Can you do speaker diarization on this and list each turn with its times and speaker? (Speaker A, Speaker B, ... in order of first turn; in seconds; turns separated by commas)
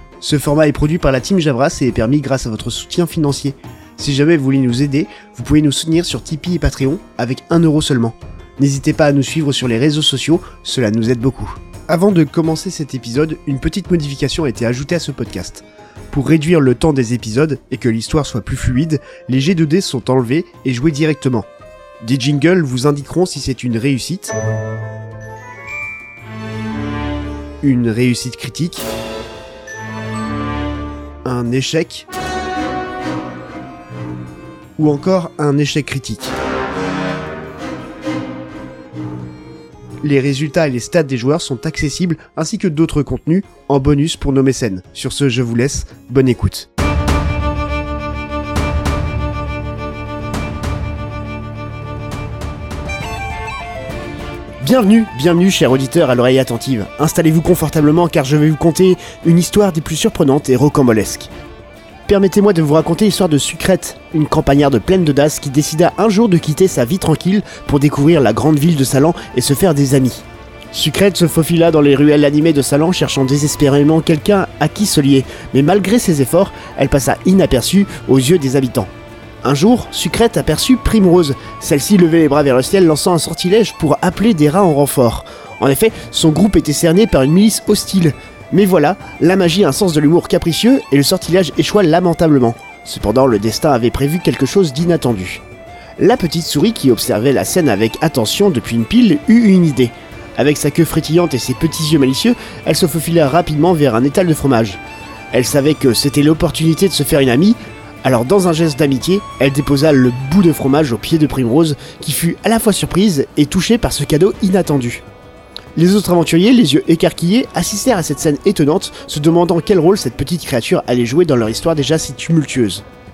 Speaker A: 0.2-21.5, Speaker A: 22.0-24.4, Speaker A: 27.6-28.9, Speaker A: 31.2-32.1, Speaker A: 34.8-36.3, Speaker A: 40.0-46.7, Speaker A: 54.6-61.3, Speaker A: 62.1-78.9, Speaker A: 79.4-95.4, Speaker A: 96.0-104.8, Speaker A: 105.3-115.0, Speaker A: 115.8-122.8